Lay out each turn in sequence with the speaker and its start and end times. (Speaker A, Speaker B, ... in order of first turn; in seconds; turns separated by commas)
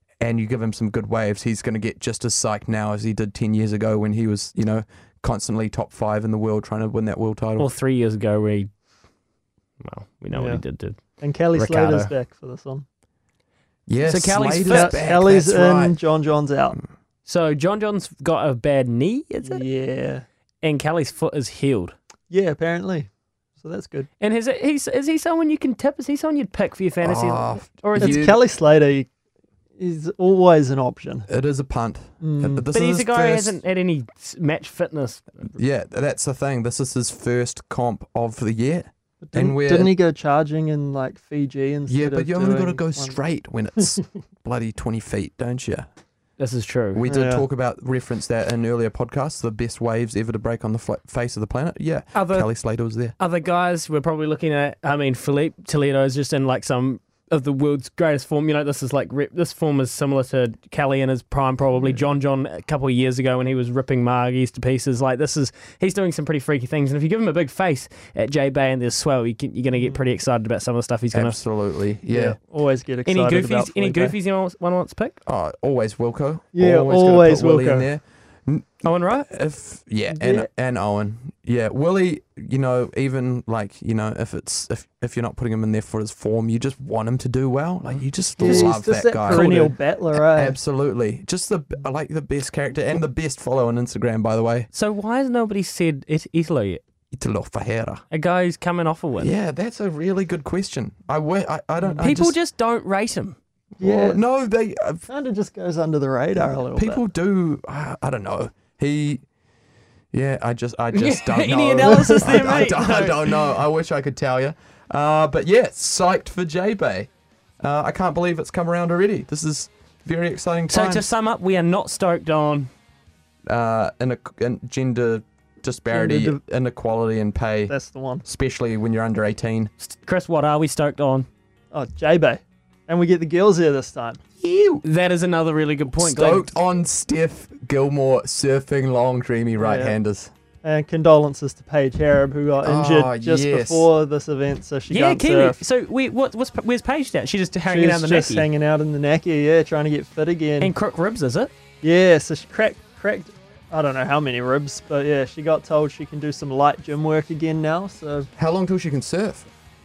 Speaker A: 0.2-7.7, Speaker B: 7.6-8.7, Speaker B: 9.8-12.1, Speaker C: 10.3-12.8, Speaker A: 13.9-16.0, Speaker B: 14.0-15.1, Speaker C: 14.6-16.8, Speaker B: 17.3-19.6, Speaker C: 19.4-20.3, Speaker B: 20.6-21.9, Speaker C: 22.3-24.1, Speaker B: 24.2-28.3, Speaker A: 27.0-28.4, Speaker C: 28.0-29.1, Speaker C: 29.8-31.3, Speaker A: 31.3-33.6, Speaker C: 32.2-32.7, Speaker B: 32.7-35.5, Speaker A: 35.5-39.9, Speaker C: 39.2-43.2, Speaker A: 41.9-45.9, Speaker B: 46.4-47.0, Speaker A: 46.9-53.1, Speaker C: 47.0-47.5, Speaker B: 52.1-52.5, Speaker B: 53.2-71.4, Speaker A: 71.1-72.4, Speaker C: 72.1-74.2, Speaker B: 73.1-75.2, Speaker A: 75.2-94.7, Speaker C: 76.5-77.9, Speaker B: 78.8-79.3, Speaker C: 80.1-80.5, Speaker C: 88.4-90.6, Speaker B: 89.3-89.6, Speaker B: 94.7-96.8, Speaker A: 97.1-98.0, Speaker B: 98.1-99.3, Speaker A: 99.2-102.3, Speaker B: 102.0-103.4, Speaker C: 103.8-104.2, Speaker A: 103.8-105.0, Speaker C: 105.1-107.0, Speaker A: 106.7-109.2, Speaker A: 110.1-117.1, Speaker B: 111.0-113.3, Speaker C: 111.8-112.7, Speaker A: 117.6-121.1, Speaker B: 120.7-122.7, Speaker A: 123.5-127.7, Speaker C: 125.9-126.4, Speaker C: 127.7-128.2, Speaker A: 128.2-129.7, Speaker B: 129.8-131.3, Speaker C: 131.7-134.2, Speaker A: 134.4-134.8, Speaker B: 134.8-136.5, Speaker A: 136.0-140.3, Speaker C: 139.6-140.0, Speaker C: 140.6-145.6, Speaker A: 142.6-143.9, Speaker B: 144.9-148.5, Speaker C: 147.7-150.7, Speaker B: 150.6-151.5, Speaker C: 151.8-158.3, Speaker A: 158.4-159.5